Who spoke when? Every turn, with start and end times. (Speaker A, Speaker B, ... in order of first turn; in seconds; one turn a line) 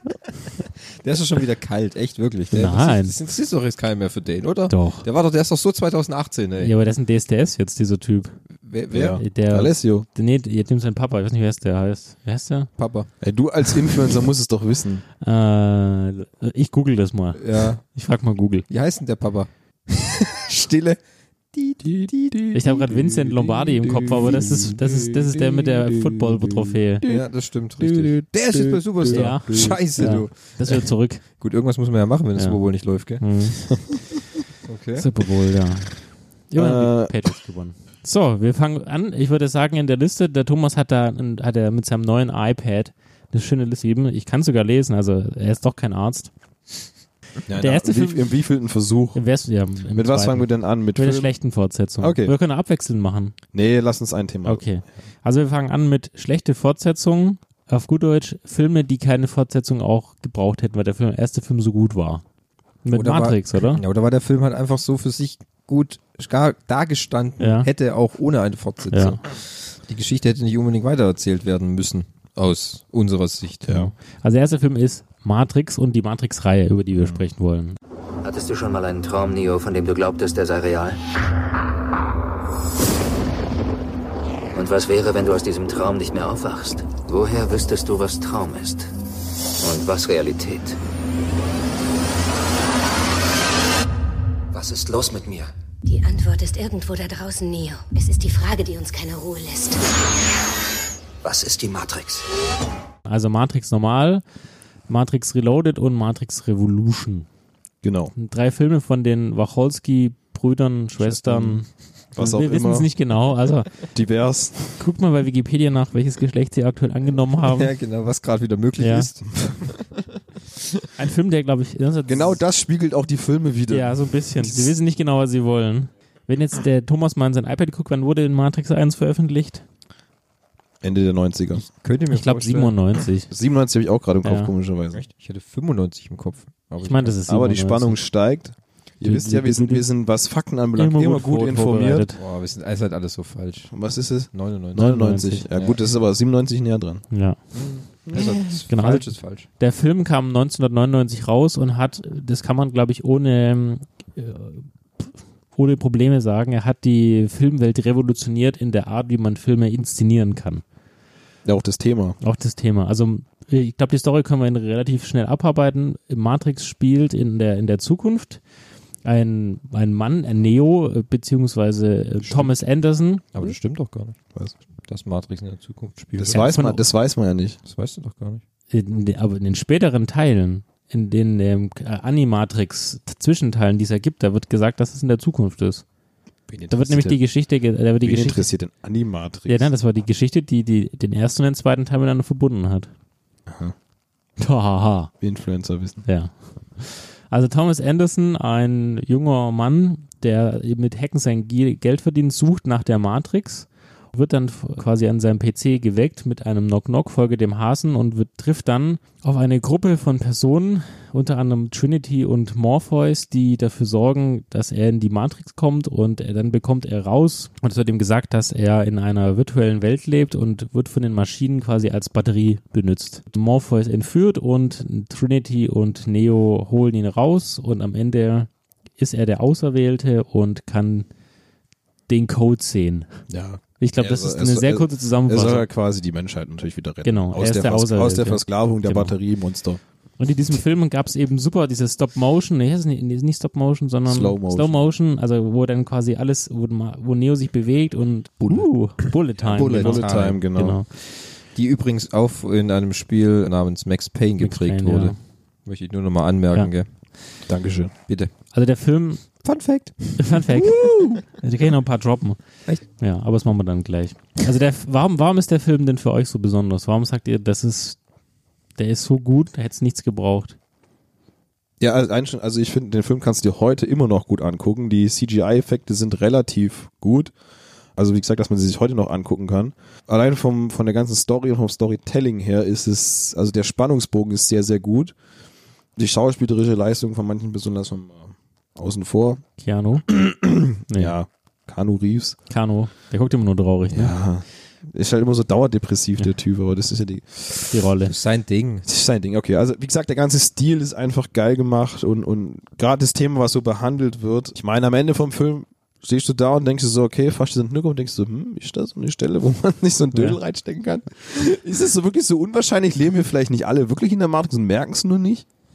Speaker A: 0.9-6.7
Speaker B: 2.5-3.2
Speaker B: 4.7-5.0
Speaker B: 6.6-8.4
Speaker A: 8.6-9.2
Speaker C: 8.9-10.1
Speaker B: 9.2-12.7
Speaker A: 12.8-13.1
Speaker C: 13.2-15.0
Speaker B: 15.2-18.6
Speaker A: 17.4-17.8
Speaker A: 18.7-21.0
Speaker A: 21.5-22.3
Speaker C: 21.8-24.6
Speaker B: 22.5-27.1
Speaker A: 27.0-30.7
Speaker C: 27.8-29.7
Speaker B: 29.1-31.2
Speaker A: 31.4-33.2
Speaker B: 33.2-33.7
Speaker A: 34.6-35.0
Speaker B: 35.0-36.0
Speaker B: 36.5-46.3
Speaker C: 36.5-37.1
Speaker C: 47.5-49.2
Speaker B: 47.6-48.3
Speaker B: 49.1-53.3
Speaker C: 49.9-51.3
Speaker C: 52.0-52.3
Speaker C: 53.5-54.6
Speaker B: 54.4-62.2
Speaker B: 62.8-63.8
Speaker A: 62.9-73.9
Speaker B: 67.4-67.7
Speaker B: 68.9-69.2
Speaker C: 73.7-73.9
Speaker B: 74.2-77.8
Speaker C: 76.9-77.2
Speaker D: 78.2-81.0
Speaker D: 84.5-88.9
Speaker D: 89.6-90.8
Speaker E: 95.8-99.8
Speaker B: 103.0-104.2
Speaker B: 104.9-107.2
Speaker C: 107.8-108.1
Speaker B: 108.2-113.7
Speaker C: 111.0-111.6
Speaker C: 112.2-112.9
Speaker C: 113.9-114.8
Speaker B: 114.8-117.7
Speaker A: 117.4-119.2
Speaker B: 118.8-119.1
Speaker B: 121.0-122.4
Speaker C: 122.1-124.7
Speaker B: 123.7-129.6
Speaker C: 130.8-131.6
Speaker A: 131.7-132.7
Speaker B: 132.1-133.3
Speaker C: 133.3-135.0
Speaker B: 134.2-134.5
Speaker A: 134.9-137.2
Speaker B: 136.8-138.0
Speaker C: 137.3-142.0
Speaker B: 139.0-139.9
Speaker B: 140.8-142.2
Speaker A: 142.2-143.7
Speaker C: 143.7-147.0
Speaker A: 144.3-144.8
Speaker B: 144.8-145.4
Speaker A: 145.5-145.8
Speaker B: 147.1-147.4
Speaker A: 147.5-149.5
Speaker B: 148.7-160.6
Speaker C: 161.4-162.2
Speaker B: 162.2-168.4
Speaker B: 169.0-173.2
Speaker C: 172.2-172.5
Speaker A: 173.3-174.2
Speaker A: 174.9-176.4
Speaker C: 176.2-177.6
Speaker B: 176.3-176.8
Speaker A: 177.7-178.4
Speaker B: 178.7-185.8
Speaker C: 186.5-187.2
Speaker B: 186.7-188.5
Speaker C: 188.0-189.7
Speaker B: 189.5-192.9
Speaker C: 193.5-193.7
Speaker B: 194.4-195.1
Speaker C: 195.2-196.0
Speaker B: 196.1-231.1
Speaker B: 232.1-233.1
Speaker C: 233.3-239.8
Speaker B: 233.8-235.7
Speaker B: 237.0-239.2
Speaker B: 240.2-250.9
Speaker C: 244.1-244.8
Speaker A: 248.4-248.7
Speaker A: 249.4-250.4
Speaker C: 249.4-250.8
Speaker A: 251.5-255.1
Speaker B: 254.4-255.2
Speaker A: 255.7-256.9
Speaker C: 257.4-257.9
Speaker B: 258.5-259.4
Speaker A: 259.4-261.2
Speaker B: 260.2-262.4
Speaker B: 263.0-268.0
Speaker B: 268.8-270.6
Speaker C: 271.8-277.3
Speaker C: 278.0-285.1
Speaker C: 285.9-289.4
Speaker B: 289.6-290.1
Speaker C: 290.1-292.4
Speaker B: 290.9-291.1
Speaker B: 292.5-294.1
Speaker C: 293.9-297.7
Speaker B: 297.7-298.1
Speaker A: 298.0-298.9
Speaker C: 298.9-315.4